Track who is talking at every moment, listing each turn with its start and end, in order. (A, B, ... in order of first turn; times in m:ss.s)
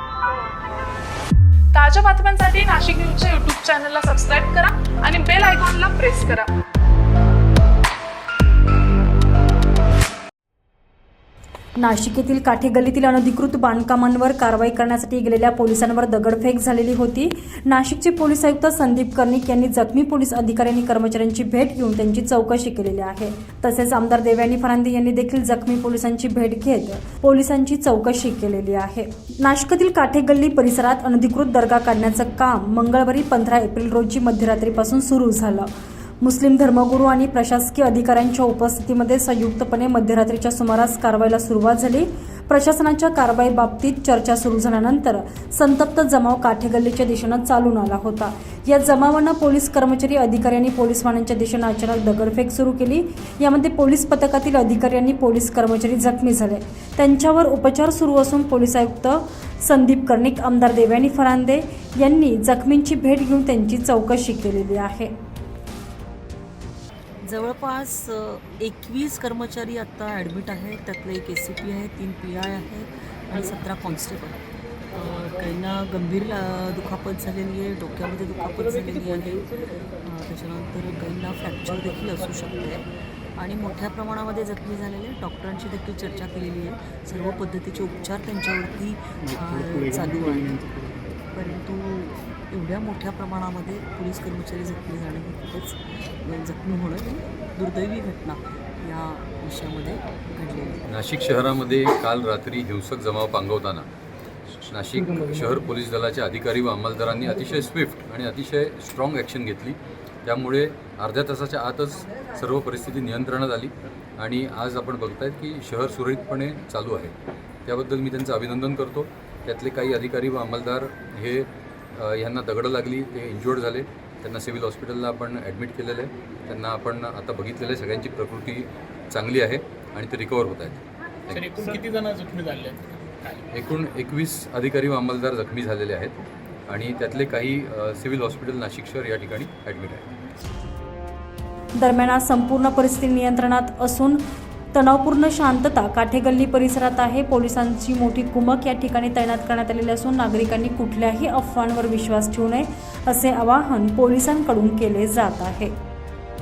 0:01.7-0:06.5 A
0:11.8-0:35.7 B
0:36.2-1:05.1 B
1:07.2-1:14.4 C
1:14.9-1:40.8 C
1:29.3-1:30.6 D
1:40.9-1:43.9 E
1:44.7-1:57.1 E
1:57.6-2:11.6 E
2:11.3-2:13.5 D
2:13.5-2:16.2 E
2:16.7-2:20.1 E
2:21.8-2:24.2 B
2:24.7-2:35.7 B